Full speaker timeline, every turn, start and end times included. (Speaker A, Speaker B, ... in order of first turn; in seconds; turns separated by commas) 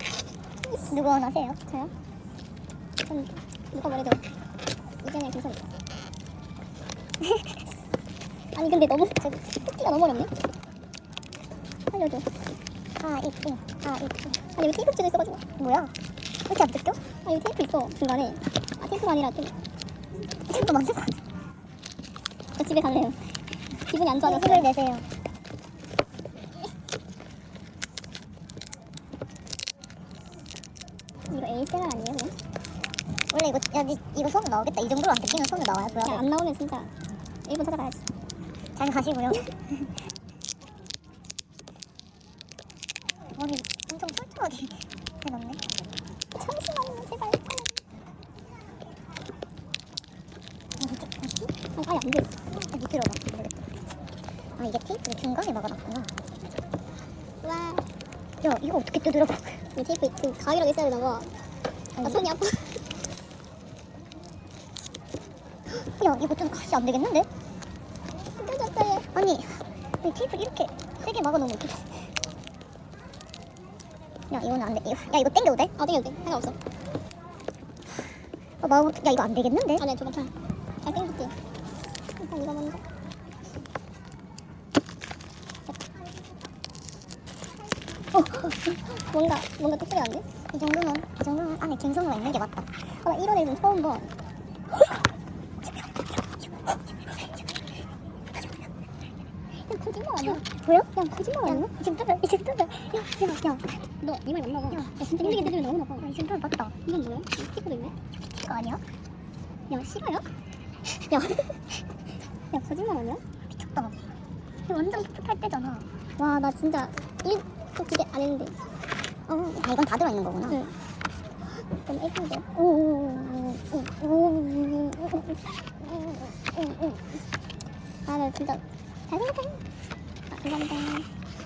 Speaker A: 0.9-1.6, Speaker B: 1.7-1.9, Speaker B: 3.1-4.2, Speaker B: 5.0-5.7, Speaker B: 8.5-10.3, Speaker B: 11.9-12.3, Speaker A: 13.0-14.4, Speaker B: 14.4-15.4, Speaker A: 15.6-15.9, Speaker A: 16.4-17.0, Speaker B: 17.2-19.6, Speaker A: 20.5-21.2, Speaker B: 22.6-24.7, Speaker A: 24.2-25.1, Speaker B: 31.3-32.3, Speaker A: 33.3-36.2, Speaker B: 36.0-36.9, Speaker B: 37.5-38.0, Speaker A: 38.8-39.5, Speaker A: 43.4-45.6, Speaker B: 46.4-47.7, Speaker A: 50.8-51.3, Speaker B: 51.6-52.3, Speaker A: 52.7-53.6, Speaker A: 54.6-56.1, Speaker B: 57.4-57.9, Speaker A: 58.4-59.6, Speaker B: 59.8-61.3, Speaker A: 62.0-62.2, Speaker B: 62.0-62.9, Speaker A: 65.7-67.3, Speaker B: 68.4-69.1, Speaker A: 69.1-72.0, Speaker A: 74.3-75.7, Speaker B: 75.8-76.6, Speaker A: 78.6-79.8, Speaker B: 79.8-80.3, Speaker B: 80.8-81.3, Speaker B: 82.2-82.8, Speaker B: 88.2-90.3, Speaker A: 90.5-92.7, Speaker B: 92.8-94.1, Speaker B: 99.5-101.7, Speaker A: 100.2-100.9, Speaker A: 101.5-103.7, Speaker B: 104.0-106.1, Speaker A: 104.7-106.7, Speaker B: 106.8-108.0, Speaker A: 108.3-108.8, Speaker B: 109.7-110.3, Speaker B: 110.9-111.6, Speaker B: 112.5-113.2, Speaker A: 113.5-114.0, Speaker A: 114.7-115.9, Speaker B: 116.2-118.6, Speaker A: 119.3-120.6, Speaker B: 120.5-120.7, Speaker B: 121.7-127.1, Speaker B: 128.1-129.6, Speaker B: 130.3-131.1